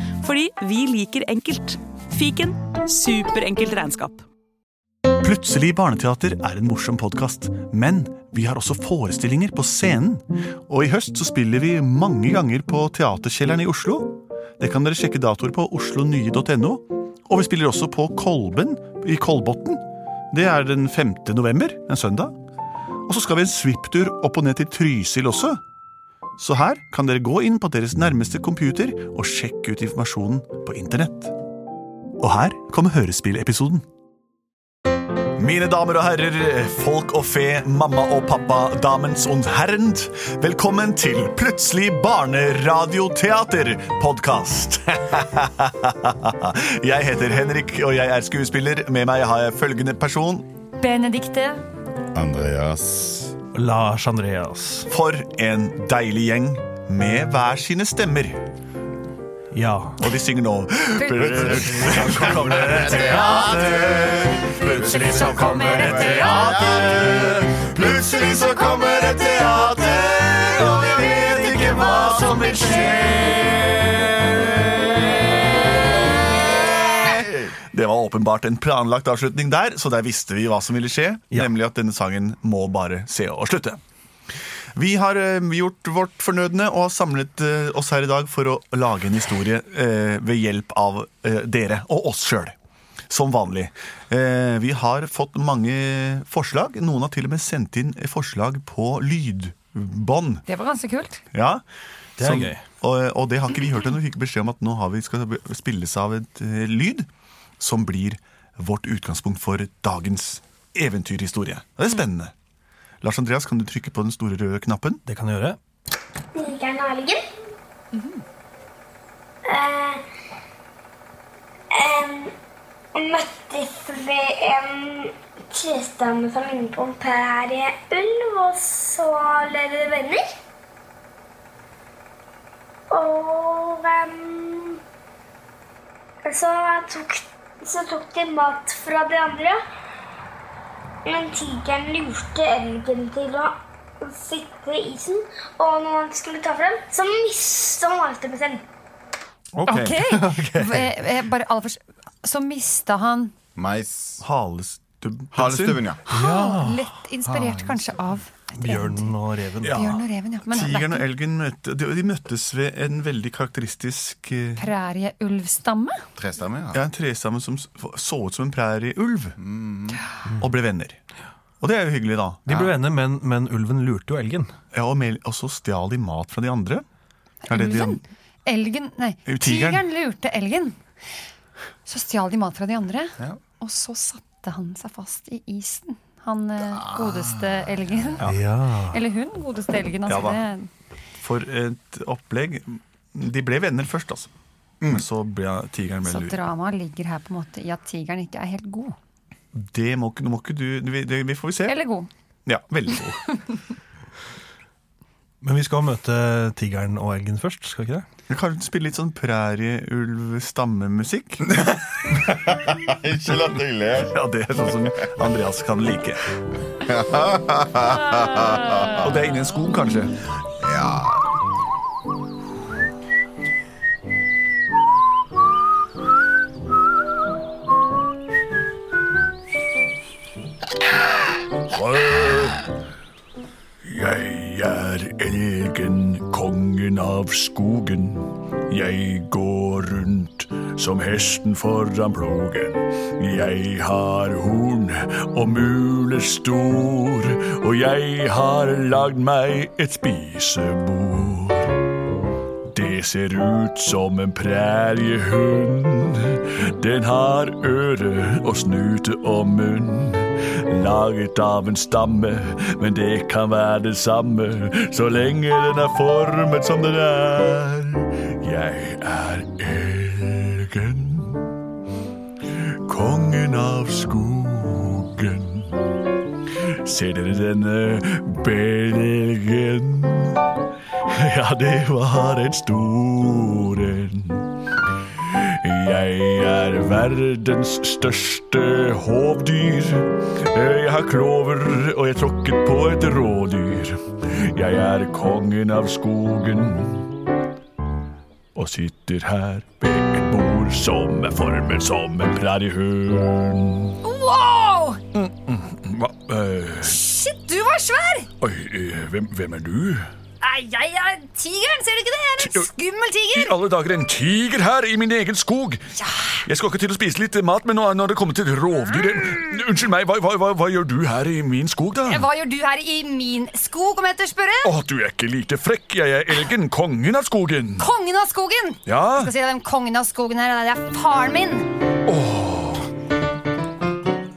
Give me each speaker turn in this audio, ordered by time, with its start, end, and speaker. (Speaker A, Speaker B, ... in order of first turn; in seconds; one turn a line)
Speaker A: 0.2-4.2
Speaker B: 5.2-22.3
Speaker B: 23.1-25.6
Speaker B: 26.4-31.4
Speaker B: 32.2-33.8
Speaker B: 35.4-50.5
Speaker C: 50.8-51.6
Speaker D: 52.1-53.4
Speaker E: 53.5-54.9
Speaker B: 54.9-58.4
Speaker E: 59.5-60.0
Speaker B: 60.0-75.2
Speaker C: 61.0-61.6
Speaker D: 61.1-69.3
Speaker E: 62.5-63.0
Speaker C: 64.7-66.7
Speaker D: 70.1-73.3
Speaker D: 76.5-77.6
Speaker B: 77.6-83.8
Speaker B: 84.8-92.6
Speaker B: 93.1-100.5
Speaker C: 100.5-101.2
Speaker B: 101.3-101.6
Speaker B: 102.2-107.1
Speaker E: 102.2-102.6
Speaker B: 107.6-112.3
Speaker B: 113.0-115.0
Speaker E: 115.1-115.6
Speaker F: 116.3-117.2
Speaker F: 119.5-120.0
Speaker F: 121.7-122.3
Speaker F: 123.0-130.3
Speaker F: 132.9-134.8
Speaker F: 136.2-139.6
Speaker F: 141.1-148.6
Speaker B: 149.5-150.9
Speaker C: 149.7-153.3
Speaker D: 153.6-154.2
Speaker B: 154.2-155.9
Speaker D: 155.3-156.0
Speaker C: 156.1-159.1
Speaker E: 156.1-156.8
Speaker D: 157.3-157.8
Speaker E: 158.6-159.8
Speaker B: 159.6-164.7
Speaker C: 159.6-161.1
Speaker C: 164.6-166.0
Speaker D: 166.2-166.8
Speaker B: 166.7-169.4
Speaker D: 169.4-170.0
Speaker B: 170.3-171.0
Speaker B: 171.6-172.5
Speaker E: 172.5-174.5
Speaker D: 172.5-172.8
Speaker B: 174.7-176.8
Speaker C: 177.4-180.8
Speaker B: 177.5-178.0
Speaker B: 179.3-179.8
Speaker C: 181.9-190.7
Speaker E: 188.2-189.0
Speaker B: 190.1-190.4
Speaker B: 191.2-194.3
Speaker B: 194.9-196.4
Speaker C: 196.1-198.9
Speaker B: 199.5-201.8
Speaker C: 201.7-202.1
Speaker B: 202.5-203.4
Speaker E: 205.4-208.1
Speaker B: 208.3-211.5
Speaker D: 211.5-214.1
Speaker B: 214.0-216.2
Speaker D: 216.8-219.0
Speaker B: 219.0-220.1
Speaker D: 220.6-221.3
Speaker B: 231.6-232.6
Speaker B: 233.8-251.8
Speaker B: 252.7-271.6
Speaker B: 272.5-275.9
Speaker B: 276.6-280.4
Speaker B: 281.1-284.6
Speaker B: 285.1-297.2
Speaker B: 298.6-304.0
Speaker C: 304.0-305.0
Speaker B: 305.1-307.0
Speaker C: 306.8-308.3
Speaker B: 308.4-310.1
Speaker C: 310.4-313.6
Speaker B: 312.4-312.7
Speaker B: 313.3-315.9
Speaker C: 316.0-316.4
Speaker B: 316.4-322.3
Speaker C: 322.1-324.7
Speaker B: 324.6-327.9
Speaker C: 327.8-331.7
Speaker B: 328.9-329.3
Speaker B: 332.1-332.9